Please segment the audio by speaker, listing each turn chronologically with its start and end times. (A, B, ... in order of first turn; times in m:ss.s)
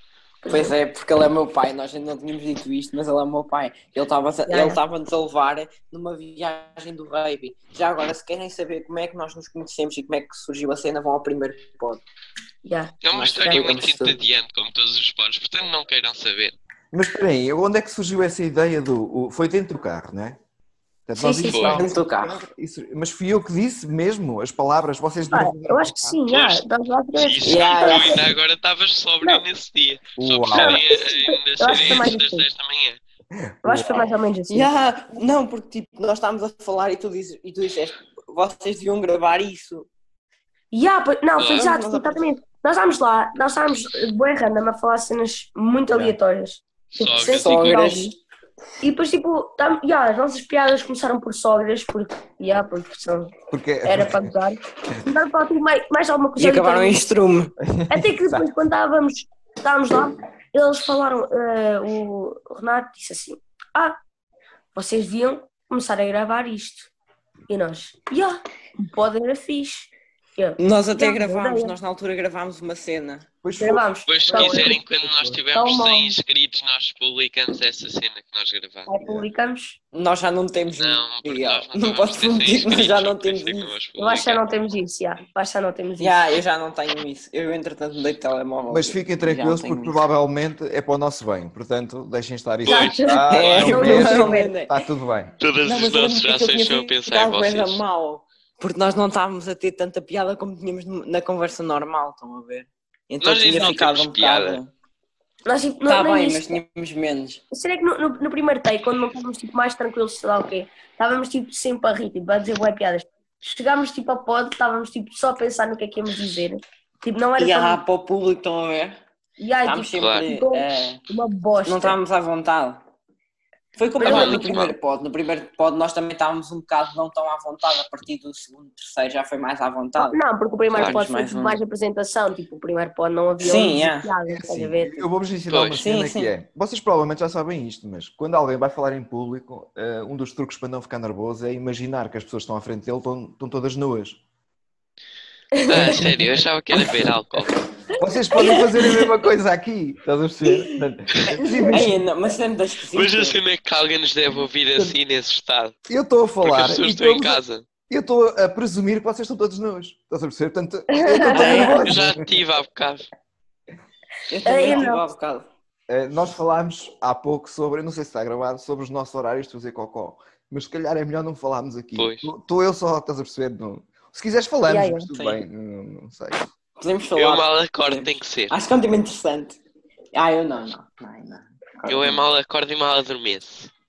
0:00.4-0:00.8 A
0:00.5-0:12.0 B
0:04.5-0:04.8 A
0:12.6-0:13.0 A
0:13.0-0:16.6 C
0:13.1-0:14.2 B
0:16.9-0:20.4 D
0:21.1-0:26.2 D
0:21.2-0:21.8 A
0:21.4-0:21.8 C
0:21.6-0:22.4 B
0:25.2-0:28.2 A
0:26.3-0:26.6 C
0:27.1-0:33.0 C
0:27.5-0:28.3 B
0:30.2-0:30.8 D
0:30.5-0:32.5 A
0:33.3-0:34.1 D
0:33.6-0:34.7 A
0:34.5-0:39.9 B
0:40.7-0:48.2 A
0:41.4-0:42.2 B
0:45.9-0:46.2 D
0:46.9-0:48.0 C
0:47.2-0:48.2 B
0:48.8-0:57.0 A
0:53.5-0:54.3 D
0:56.4-0:57.5 B
0:57.6-0:58.5 D
0:57.9-1:04.0 A
1:04.7-1:06.9 A
1:07.5-1:11.8 A
1:10.6-1:13.3 B
1:13.4-1:15.4 D
1:13.6-1:14.8 A
1:14.1-1:18.9 C
1:15.5-1:16.2 A
1:18.9-1:19.8 A
1:19.0-1:19.3 D
1:19.9-1:23.7 B
1:20.8-1:24.4 C
1:24.0-1:26.3 A
1:26.0-1:30.0 B
1:28.7-1:35.4 D
1:32.6-1:33.8 C
1:32.7-1:34.5 A
1:33.3-1:34.8 B
1:35.4-1:37.8 C
1:35.6-1:44.7 B
1:43.2-1:44.6 C
1:45.4-1:46.6 A
1:45.9-1:47.4 B
1:47.5-1:57.8 A
1:57.4-1:59.0 B
1:59.4-2:02.0 A
1:59.6-2:01.0 B
2:00.0-2:00.3 C
2:01.6-2:02.8 B
2:03.8-2:10.2 B
2:04.0-2:04.6 A
2:04.0-2:04.7 C
2:10.0-2:15.1 A
2:10.7-2:11.0 C
2:10.8-2:11.6 B
2:13.4-2:14.1 B
2:14.3-2:24.2 D
2:15.5-2:15.8 C
2:15.8-2:16.3 B
2:25.6-2:26.0 A
2:25.6-2:27.6 C
2:25.8-2:26.2 D
2:28.0-2:32.0 D
2:28.3-2:28.7 A
2:31.4-2:31.8 A
2:31.7-2:33.4 B
2:32.9-2:35.7 C
2:35.9-2:42.3 D
2:36.4-2:37.6 C
2:40.9-2:41.8 A
2:41.3-2:42.0 B
2:41.4-2:43.1 C
2:44.3-2:45.5 B
2:44.4-2:45.1 A
2:45.9-2:56.5 D
2:52.0-2:52.3 C
2:54.7-2:55.1 A
2:55.1-2:55.4 B
2:56.8-2:59.6 B
2:57.2-2:58.5 C
3:00.1-3:02.3 B
3:01.9-3:03.7 C